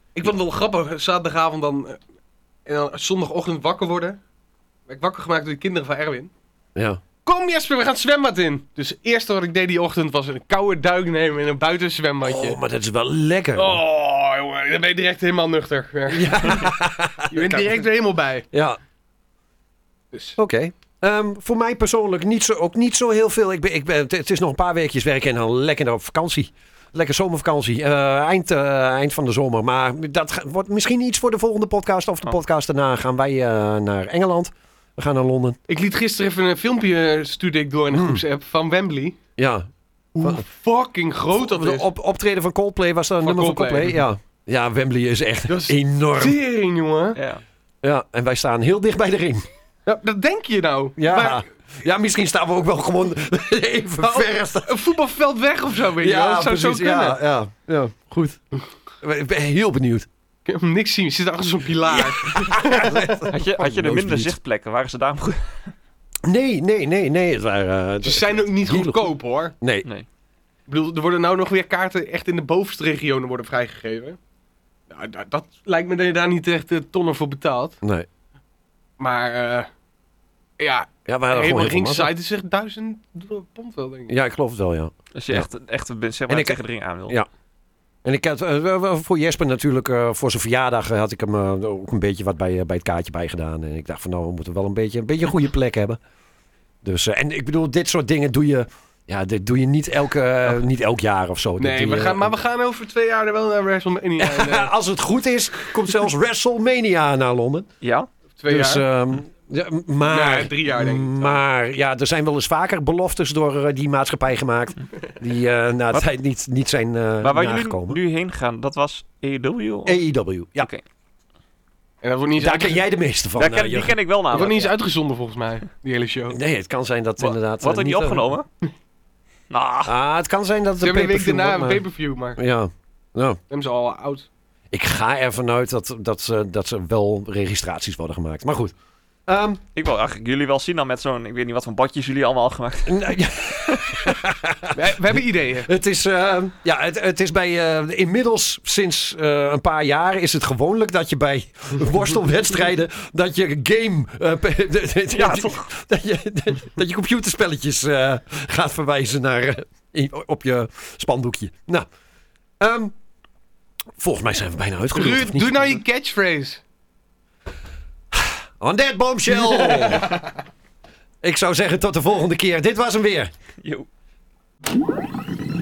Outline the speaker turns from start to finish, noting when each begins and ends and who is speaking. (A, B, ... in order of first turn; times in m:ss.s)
0:00.2-0:02.0 A
0:02.7-0:04.2 A
0:04.9-0:06.3 A
0:06.8-0:07.0 B
0:07.2-0:12.6 A
0:12.2-0:13.8 B
0:13.6-0:16.7 A
0:16.1-0:17.8 B
0:17.3-0:18.5 A
0:18.5-0:18.8 B
0:20.1-0:20.4 A
0:20.4-0:35.6 B
0:35.7-0:39.2 A
0:37.9-0:38.2 B
0:39.4-0:39.7 B
0:40.2-0:41.9 A
0:41.3-0:46.4 B
0:43.2-0:43.9 A
0:45.5-0:47.2 A
0:47.2-0:47.4 C
0:47.8-0:49.5 B
0:49.9-0:51.4 A
0:51.0-0:54.8 B
0:54.0-0:57.2 A
0:56.0-0:58.4 B
0:59.0-1:00.1 B
1:00.5-1:03.1 A
1:01.9-1:04.4 B
1:03.3-1:05.7 C
1:06.2-1:09.0 B
1:08.0-1:09.6 A
1:09.6-1:09.9 B
1:10.7-1:14.2 A
1:14.9-1:17.8 A
1:19.0-1:19.7 A
1:20.6-1:24.1 A
1:21.1-1:22.1 B
1:24.1-1:25.5 B
1:25.2-1:27.2 C
1:26.3-1:27.3 B
1:28.0-1:36.0 B
1:36.8-1:42.3 B
1:41.6-1:44.7 A
1:44.2-1:47.7 B
1:47.8-1:48.1 C
1:48.4-1:48.8 A
1:48.5-1:58.0 B
1:50.1-1:51.4 A
1:57.2-2:00.0 C
1:59.9-2:00.7 B
2:02.0-2:02.8 A
2:02.4-2:04.0 B
2:03.4-2:04.8 C
2:04.3-2:06.4 A
2:06.3-2:08.2 B
2:07.2-2:08.5 C
2:09.5-2:10.0 C
2:09.8-2:11.8 B
2:10.8-2:12.4 A
2:12.4-2:13.4 B
2:13.5-2:14.3 A
2:14.7-2:18.7 B
2:19.3-2:19.6 B
2:19.8-2:24.1 C
2:22.9-2:41.9 B
2:24.7-2:25.7 A
2:35.1-2:35.7 C
2:42.6-2:42.9 B
2:44.0-2:45.7 B
2:44.9-2:46.6 A
2:48.1-2:50.2 B
2:49.6-2:49.8 A
2:51.2-2:53.3 B
2:53.6-2:53.9 C